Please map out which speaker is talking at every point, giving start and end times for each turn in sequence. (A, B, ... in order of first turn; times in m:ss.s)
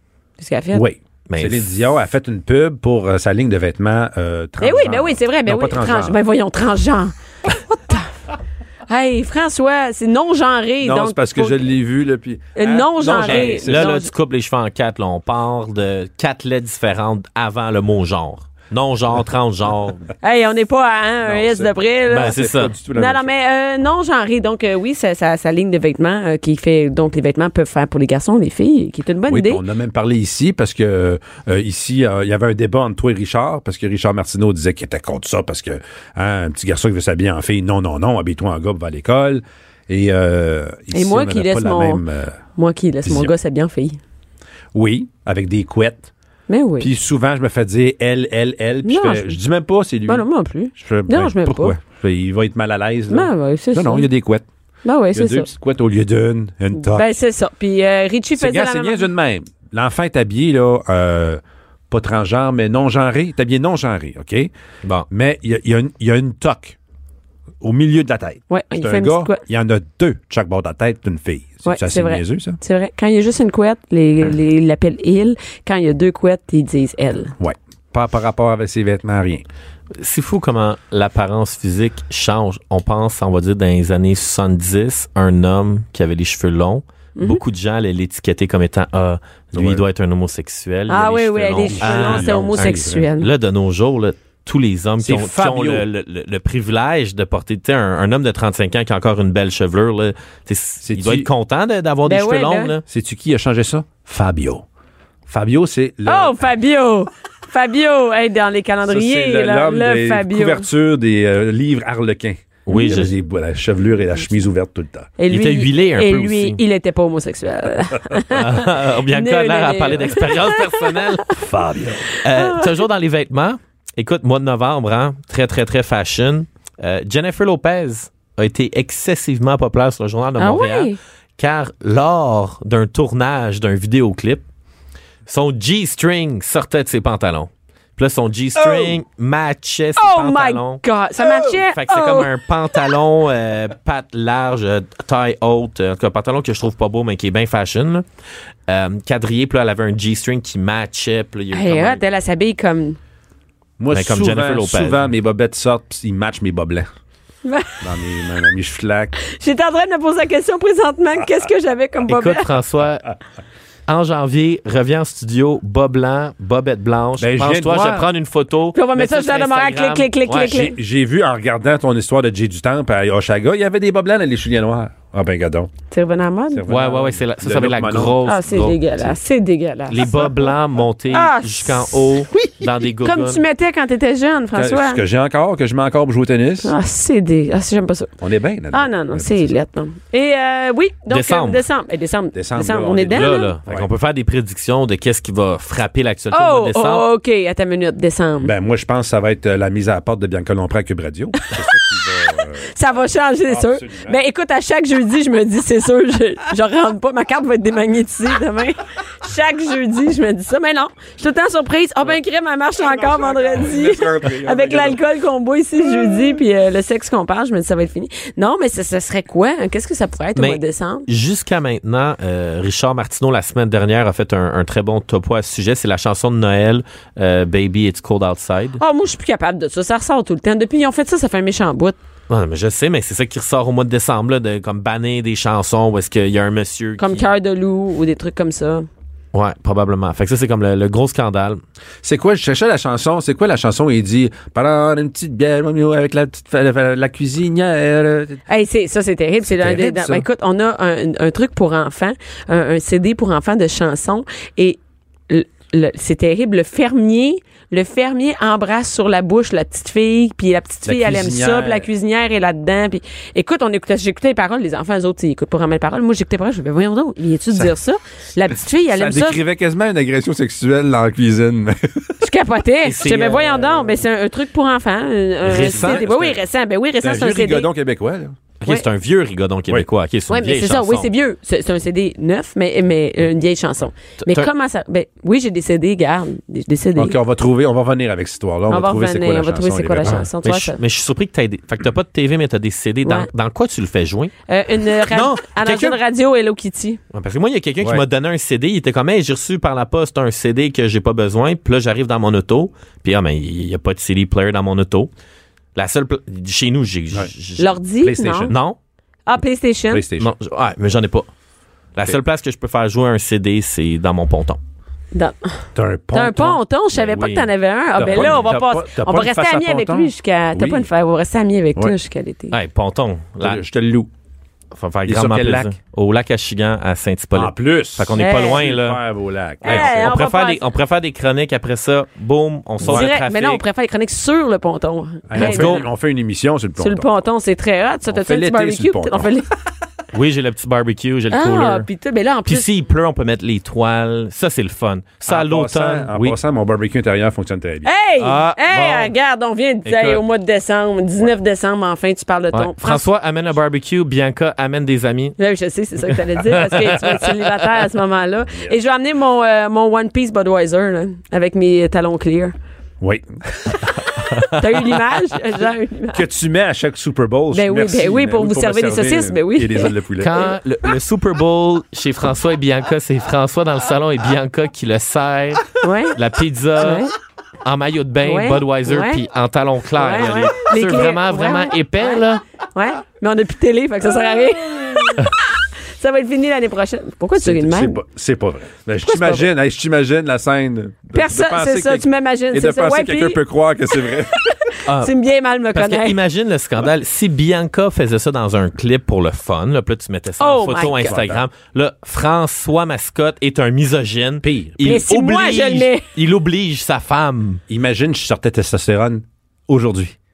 0:00.4-0:00.8 A
0:00.7-0:06.2 B
0:01.3-0:01.7 C
0:04.6-0:07.1 A
0:07.7-0:08.1 A
0:08.9-0:11.6 A
0:10.8-0:13.9 B
0:12.6-0:14.1 A
0:13.1-0:20.0 C
0:20.2-0:29.6 A
0:21.2-0:23.3 B
0:22.1-0:22.8 C
0:29.3-0:42.4 B
0:40.9-0:42.0 A
0:42.6-0:44.0 A
0:43.0-0:43.3 B
0:44.7-0:46.1 B
0:46.5-0:46.9 A
0:46.8-0:54.4 B
0:48.8-0:49.4 A
0:50.1-0:51.8 A
0:53.1-0:54.1 A
0:54.8-0:55.5 A
0:55.1-0:57.1 B
0:56.7-0:59.1 A
0:58.4-1:04.5 B
1:05.1-1:06.8 B
1:07.6-1:12.6 B
1:08.5-1:09.4 A
1:11.6-1:17.3 A
1:17.4-1:19.4 B
1:20.0-1:42.8 C
1:27.2-1:27.4 A
1:29.6-1:29.9 B
1:30.9-1:33.3 A
1:31.7-1:33.1 B
1:35.0-1:35.8 B
1:40.8-1:41.3 B
1:42.0-1:42.8 A
1:42.9-1:44.6 B
1:45.3-1:46.4 B
1:46.1-1:50.7 A
1:48.9-1:55.2 B
1:52.6-1:53.2 C
1:52.7-1:53.0 A
1:55.2-2:01.2 A
1:55.2-1:56.6 C
1:58.3-2:01.3 C
2:01.3-2:02.1 B
2:02.1-2:14.5 C
2:02.3-2:02.7 A
2:10.4-2:11.0 A
2:15.3-2:20.8 C
2:18.6-2:18.9 B
2:20.0-2:22.3 A
2:21.5-2:28.1 C
2:28.7-2:32.0 C
2:31.5-2:33.0 A
2:33.8-2:36.9 B
2:33.9-2:35.1 C
2:37.4-2:37.8 A
2:37.8-2:39.1 B
2:39.2-2:42.5 A
2:42.1-2:43.0 C
2:43.9-2:50.6 C
2:47.2-2:48.1 B
2:48.7-2:50.8 A
2:50.4-2:55.7 B
2:55.9-2:56.6 A
2:56.5-2:58.2 B
2:56.7-2:58.9 C
2:58.2-3:00.5 A
2:59.9-3:03.4 C
3:01.1-3:02.2 A
3:03.0-3:05.0 A
3:04.6-3:06.7 B
3:06.6-3:08.1 A
3:08.2-3:09.5 B
3:08.7-3:13.5 A
3:11.1-3:11.6 C
3:12.3-3:13.9 B
3:13.1-3:17.1 C
3:16.3-3:18.5 A
3:18.4-3:22.7 B
3:22.6-3:41.1 A
3:23.5-3:24.2 B
3:32.8-3:35.0 B
3:40.4-3:48.8 C
3:48.8-3:52.0 A
3:52.3-3:57.3 C
3:57.0-3:58.9 A
3:59.3-4:01.6 C
4:02.0-4:08.4 B
4:08.5-4:29.4 A
4:09.5-4:10.3 B
4:20.9-4:21.9 B
4:28.9-4:32.1 B
4:32.2-4:37.7 A
4:32.8-4:33.9 C
4:35.4-4:36.3 C
4:35.6-4:36.3 B
4:37.0-4:38.4 B
4:38.6-4:41.1 C
4:40.3-4:47.2 A
4:44.2-4:44.5 C
4:47.0-4:50.3 B
4:48.7-4:50.8 A
4:50.4-4:54.3 C
4:53.0-4:53.3 A
4:54.5-4:57.0 A
4:55.1-4:56.0 C
4:57.1-5:05.1 C
5:05.8-5:07.8 C
5:07.6-5:08.5 A
5:08.0-5:08.6 B
5:08.5-5:08.8 C
5:09.3-5:10.0 A
5:09.9-5:10.3 B
5:10.2-5:11.3 C
5:11.9-5:14.6 C
5:15.1-5:22.6 A
5:15.8-5:16.6 B
5:16.9-5:18.6 C
5:17.9-5:20.9 B
5:22.5-5:23.6 C
5:23.4-5:24.1 B
5:24.7-5:29.0 C
5:25.1-5:25.8 B
5:27.4-5:30.1 B
5:28.1-5:28.6 A
5:29.6-5:30.6 A
5:29.6-5:33.6 C
5:32.8-5:33.1 B
5:32.8-5:35.9 A
5:35.3-5:37.1 B
5:35.4-5:35.9 C
5:36.8-5:39.5 A
5:38.1-5:39.4 B
5:40.1-5:41.9 C
5:41.3-5:42.7 A
5:42.4-5:46.4 C
5:45.3-5:47.9 B
5:47.8-5:53.1 A
5:48.2-5:49.1 C
5:49.8-5:50.2 C
5:52.5-5:55.4 C
5:55.4-6:02.6 A
5:56.5-5:57.4 C
6:03.0-6:03.8 B
6:04.2-6:06.2 A
6:06.1-6:10.6 B
6:07.5-6:09.9 A
6:10.2-6:17.1 C
6:15.8-6:16.2 A
6:16.8-6:17.1 A
6:17.6-6:22.4 C
6:18.2-6:19.2 A
6:19.9-6:28.0 A
6:27.4-6:34.5 B
6:29.0-6:29.5 A
6:31.1-6:33.4 A
6:33.9-6:36.2 A
6:34.9-6:35.1 C
6:35.7-6:47.6 C
6:40.4-6:41.2 A
6:40.9-6:41.5 B
6:44.4-6:45.0 B
6:44.8-6:46.1 A
6:47.7-6:50.2 B